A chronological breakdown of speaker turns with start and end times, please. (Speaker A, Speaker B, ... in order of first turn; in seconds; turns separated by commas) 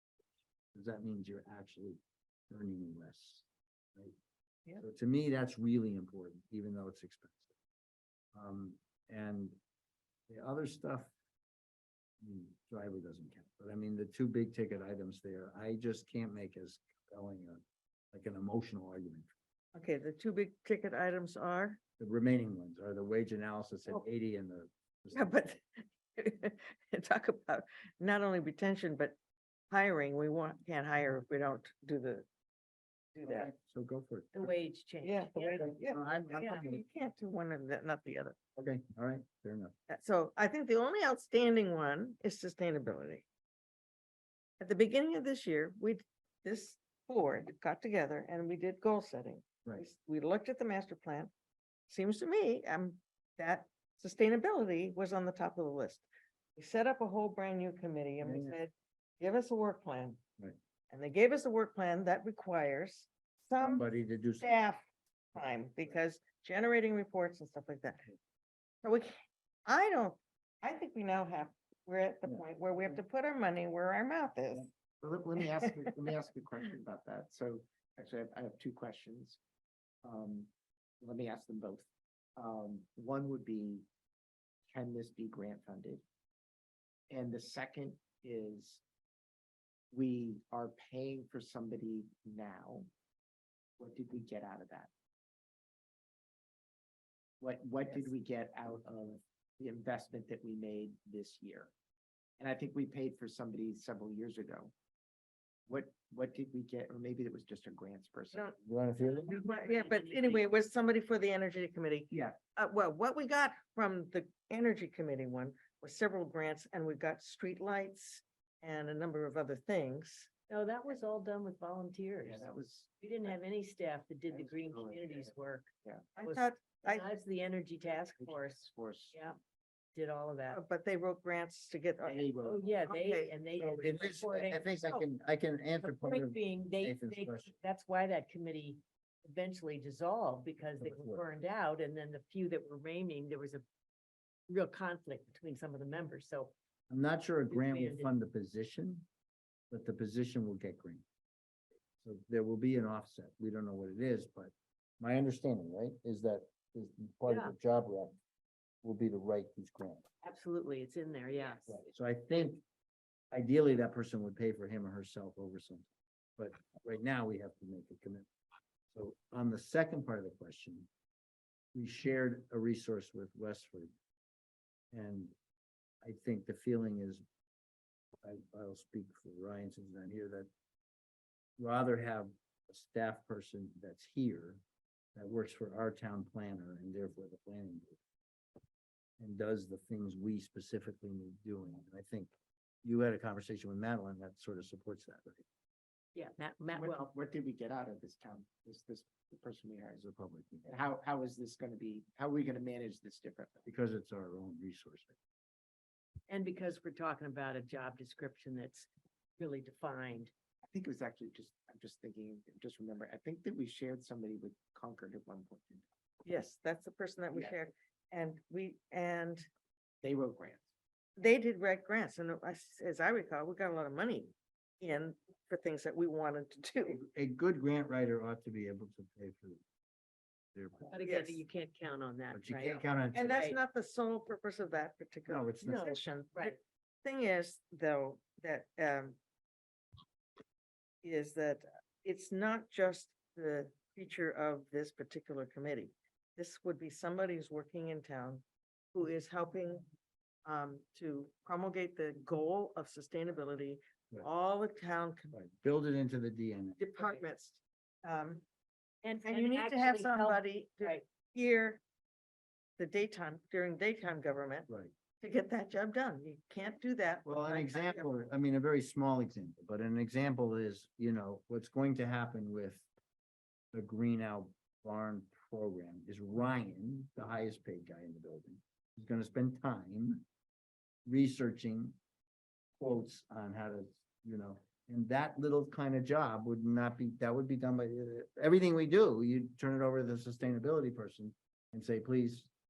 Speaker A: 0.7-3.4, Speaker A: 4.8-7.5, Speaker A: 8.3-9.6, Speaker A: 10.3-11.1, Speaker A: 12.2-19.3, Speaker B: 19.7-21.8, Speaker A: 22.0-25.4, Speaker B: 25.1-29.1, Speaker B: 29.7-32.2, Speaker B: 33.1-33.5, Speaker A: 33.2-34.5, Speaker C: 34.3-35.6, Speaker B: 35.0-38.4, Speaker A: 35.6-36.8, Speaker C: 36.3-36.6, Speaker A: 38.5-39.7, Speaker B: 39.9-43.2, Speaker B: 44.6-51.3, Speaker B: 51.9-56.0, Speaker B: 56.6-60.2, Speaker A: 58.2-58.6, Speaker B: 60.9-63.9, Speaker A: 63.6-64.5, Speaker B: 64.4-64.8, Speaker B: 65.3-68.0, Speaker B: 68.8-69.1, Speaker B: 69.7-74.7, Speaker D: 75.0-79.4, Speaker D: 80.0-81.8, Speaker D: 82.4-83.8, Speaker D: 84.7-86.0, Speaker D: 87.1-88.8, Speaker D: 89.9-92.9, Speaker D: 93.8-94.9, Speaker D: 97.4-101.7, Speaker D: 102.4-104.7, Speaker D: 105.7-108.4, Speaker B: 108.3-120.3, Speaker A: 108.6-109.4, Speaker C: 109.5-110.3, Speaker C: 120.5-122.5, Speaker D: 122.2-123.3, Speaker C: 123.0-125.7, Speaker D: 124.3-125.3, Speaker B: 126.2-127.1, Speaker C: 126.2-129.4, Speaker D: 128.2-129.2, Speaker C: 129.9-130.6, Speaker B: 130.5-132.3, Speaker D: 132.0-132.7, Speaker C: 132.4-134.7, Speaker B: 132.8-133.3, Speaker A: 133.6-137.5, Speaker C: 135.8-143.6, Speaker A: 140.8-141.2, Speaker C: 144.5-146.5, Speaker A: 146.9-149.1, Speaker C: 147.5-148.1, Speaker A: 149.7-151.0, Speaker A: 152.0-158.2, Speaker C: 157.3-157.5, Speaker A: 158.8-160.0, Speaker C: 160.2-161.8, Speaker A: 161.7-162.6, Speaker A: 163.3-165.8, Speaker A: 166.4-168.3, Speaker A: 168.9-170.9, Speaker A: 171.7-173.9, Speaker A: 174.9-175.3, Speaker A: 176.0-177.2, Speaker A: 178.2-180.5, Speaker A: 181.6-184.6, Speaker A: 185.1-188.0, Speaker A: 189.2-192.3, Speaker A: 192.8-195.4, Speaker C: 196.1-197.1, Speaker D: 196.7-200.0, Speaker A: 200.0-200.7, Speaker D: 200.7-203.7, Speaker A: 203.6-205.1, Speaker C: 206.3-208.9, Speaker C: 209.4-210.3, Speaker D: 210.6-215.8, Speaker B: 216.2-219.4, Speaker D: 220.0-220.6, Speaker B: 221.2-227.0, Speaker A: 226.9-229.6, Speaker A: 230.5-230.9, Speaker C: 230.9-233.6, Speaker B: 231.0-231.4, Speaker A: 232.3-233.4, Speaker B: 233.1-239.2, Speaker A: 235.3-235.8, Speaker C: 235.6-236.5, Speaker B: 241.0-249.9, Speaker B: 250.4-255.3, Speaker A: 255.3-256.9, Speaker B: 256.8-258.4, Speaker C: 259.0-261.0, Speaker B: 259.2-261.8, Speaker B: 262.8-264.7, Speaker B: 265.2-268.1, Speaker A: 267.2-272.8, Speaker A: 273.7-280.2, Speaker A: 281.1-282.0, Speaker A: 282.8-292.5